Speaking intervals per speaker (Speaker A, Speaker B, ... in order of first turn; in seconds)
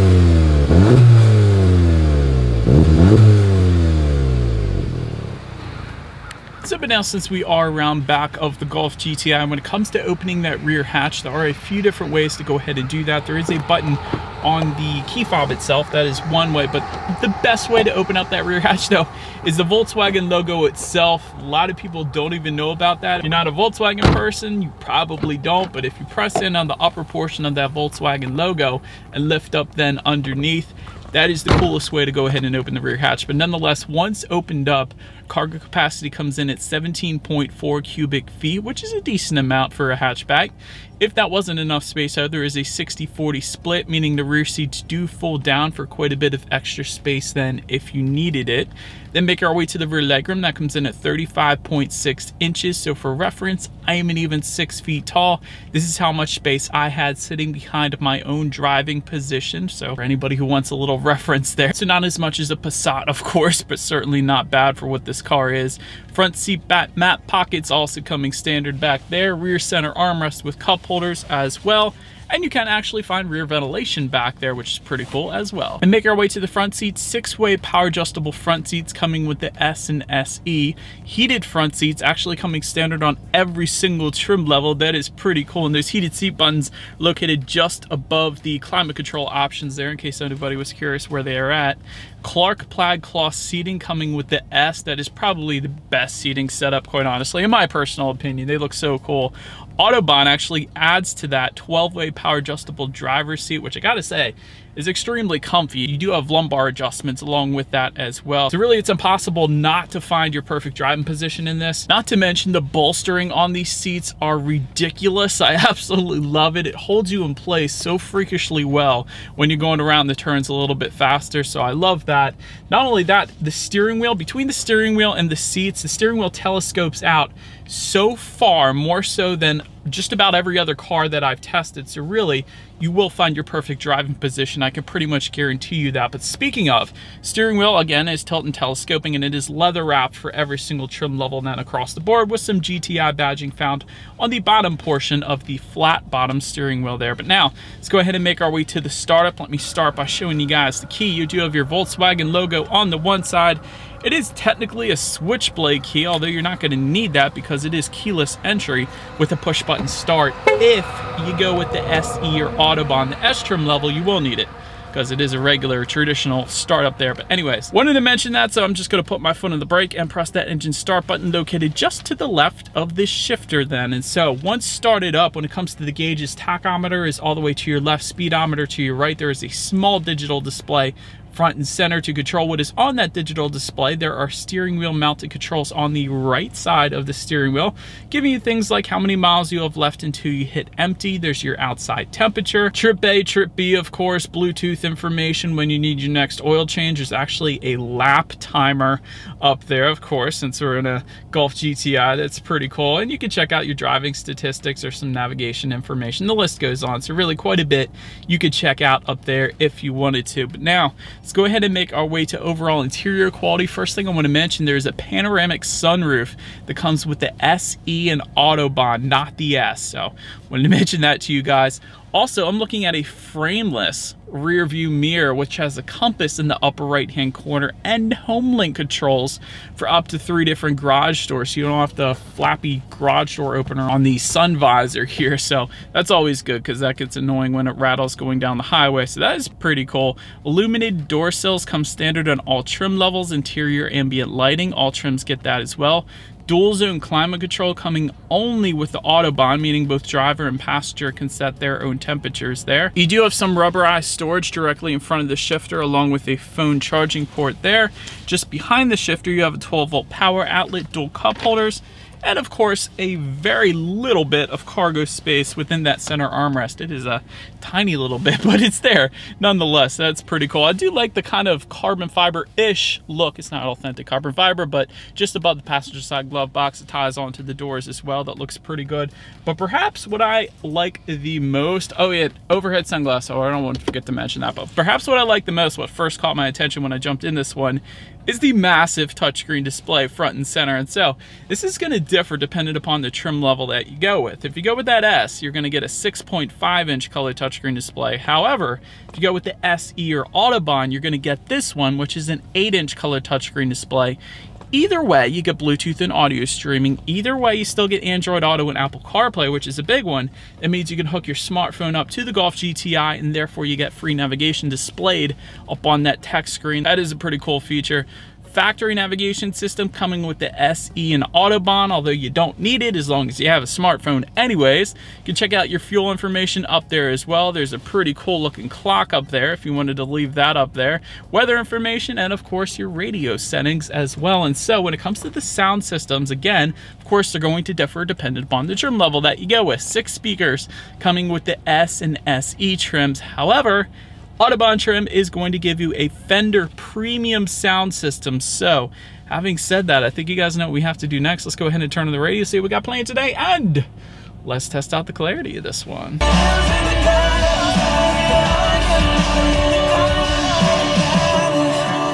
Speaker A: 6.6-304.2, 304.7-353.9, 354.4-362.0